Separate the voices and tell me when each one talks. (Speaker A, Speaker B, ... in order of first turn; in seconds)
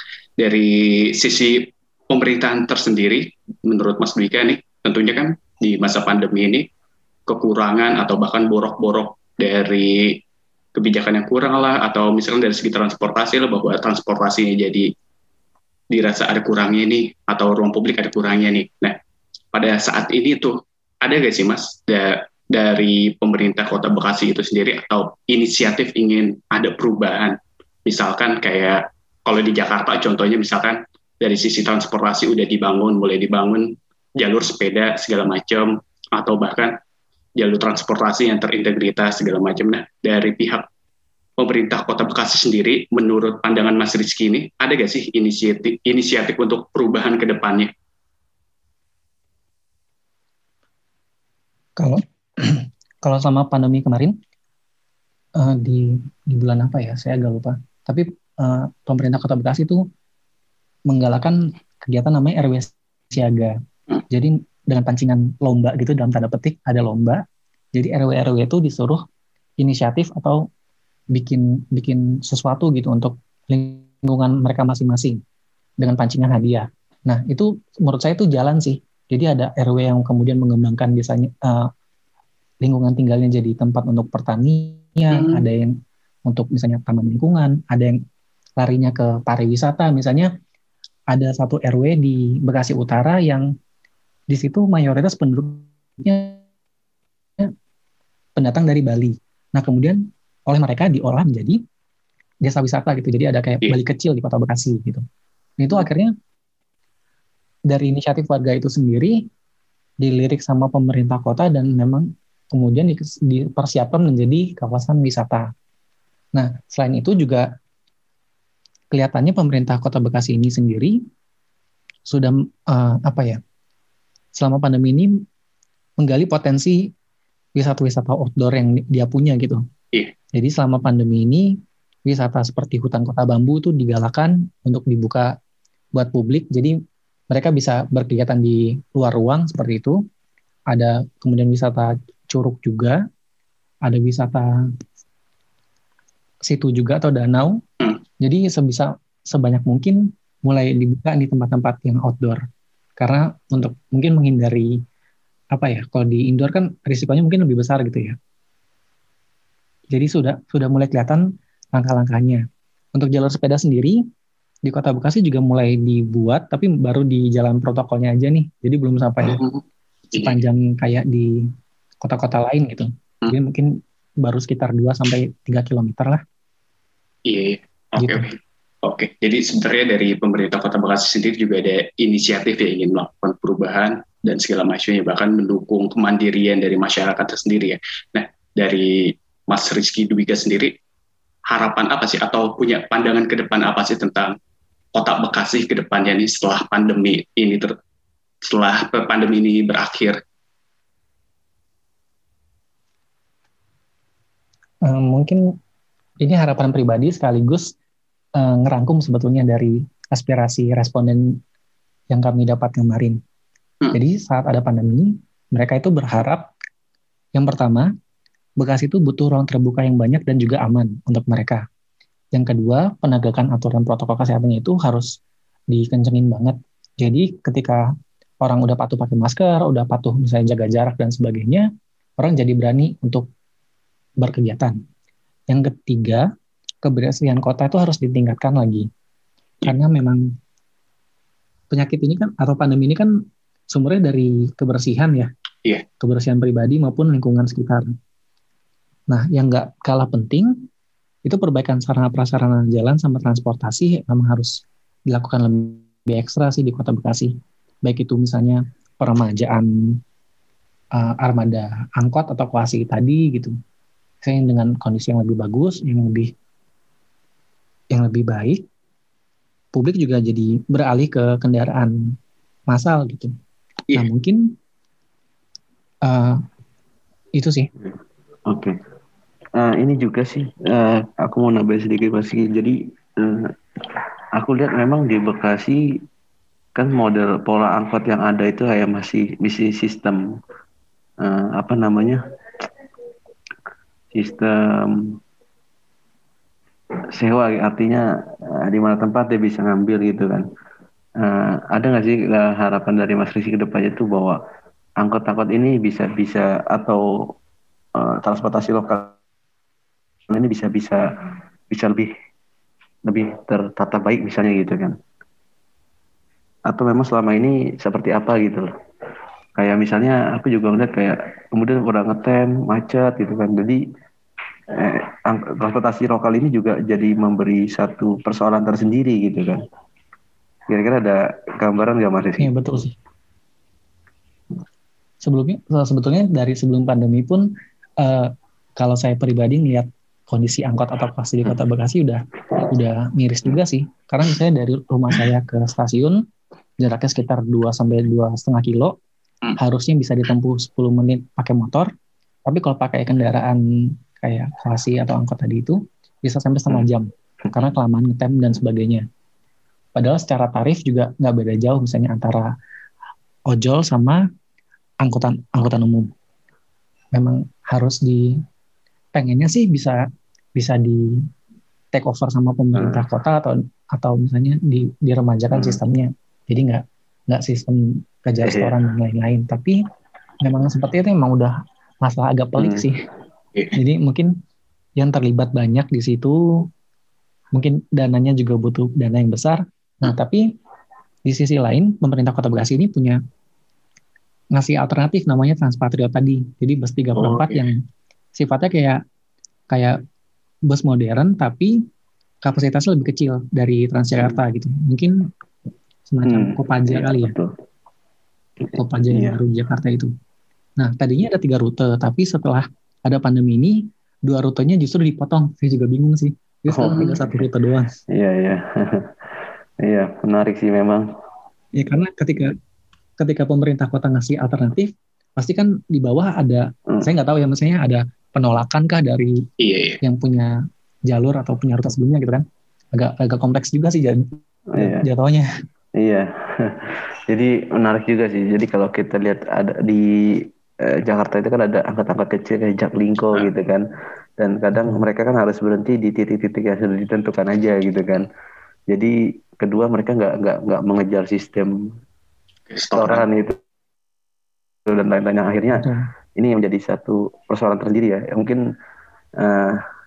Speaker A: 0.4-6.7, 7.3-10.2, 10.7-14.9, 15.9-19.0, 19.5-36.8, 37.4-40.7, 41.4-47.7, 85.1-85.4, 169.2-170.4, 177.3-190.8, 191.5-194.4, 194.9-197.8, 198.4-200.2, 397.2-397.6, 416.8-417.2, 429.6-430.0, 452.7-453.2
Speaker B: 51.8-54.1, 55.4-59.8, 60.9-63.6, 64.1-67.2, 67.8-69.0, 69.6-70.4, 71.1-75.2, 75.8-81.7, 82.6-88.0, 88.6-90.3, 91.1-93.5, 94.3-96.4, 98.4-101.6, 102.4-105.0, 105.6-106.1, 107.7-109.2, 110.0-115.5, 116.3-117.5, 118.9-121.0, 122.1-123.4, 124.4-125.1, 126.0-126.9, 127.6-129.6, 130.3-135.3, 135.9-136.8, 137.3-140.0, 140.7-143.0, 143.9-144.6, 146.5-147.6, 148.2-152.4, 153.0-154.8, 155.5-158.2, 159.9-162.4, 162.9-164.0, 164.7-169.4, 170.1-171.4, 172.0-173.7, 174.2-176.2, 178.0-178.3, 204.9-205.4, 206.2-207.7, 208.4-211.4, 212.1-213.2, 213.9-216.5, 217.3-217.9, 218.6-221.6, 222.3-225.1, 225.7-227.8, 228.4-231.7, 232.2-233.3, 234.2-234.8, 235.5-236.3, 236.8-238.9, 239.6-240.2, 241.7-243.1, 243.7-245.3, 246.0-247.9, 249.1-250.7, 251.3-257.3, 257.9-260.0, 261.0-263.5, 264.2-266.3, 267.9-268.6, 269.7-272.1, 272.7-273.3, 273.9-274.6, 276.1-276.4, 277.4-277.7, 332.4-333.0, 335.2-337.5, 338.0-346.2, 346.8-349.0, 349.6-351.9, 352.5-353.6, 354.1-359.1, 360.0-362.5, 363.5-364.2, 365.0-366.1, 367.1-368.4, 369.1-370.0, 370.6-371.2, 371.9-379.8, 380.4-383.0, 383.7-384.3, 385.0-386.6, 387.5-390.5, 391.3-393.2, 394.6-397.8, 398.4-399.0, 399.7-400.0, 400.7-401.8, 402.4-405.3, 406.1-407.3, 408.7-410.1, 410.8-418.0, 421.8-422.6, 423.2-429.4, 430.0-430.5, 431.1-435.5, 444.8-445.1, 455.7-456.1
Speaker C: 278.5-278.8, 279.6-283.5, 284.4-286.0, 286.8-290.4, 291.2-292.2, 294.1-295.2, 297.1-300.5, 301.2-304.4, 305.0-307.0, 308.0-309.2, 310.3-311.0, 311.7-312.1, 313.1-315.0, 316.7-318.7, 319.6-323.8, 324.7-329.6, 330.7-332.5, 372.7-373.0, 375.5-375.8, 378.4-378.8, 382.6-382.9, 406.3-407.5, 408.6-409.4, 416.7-417.4, 418.1-421.1, 434.7-435.1, 436.0-443.9, 444.4-448.3, 448.9-451.7, 453.0-453.6, 454.9-458.6, 459.4-459.8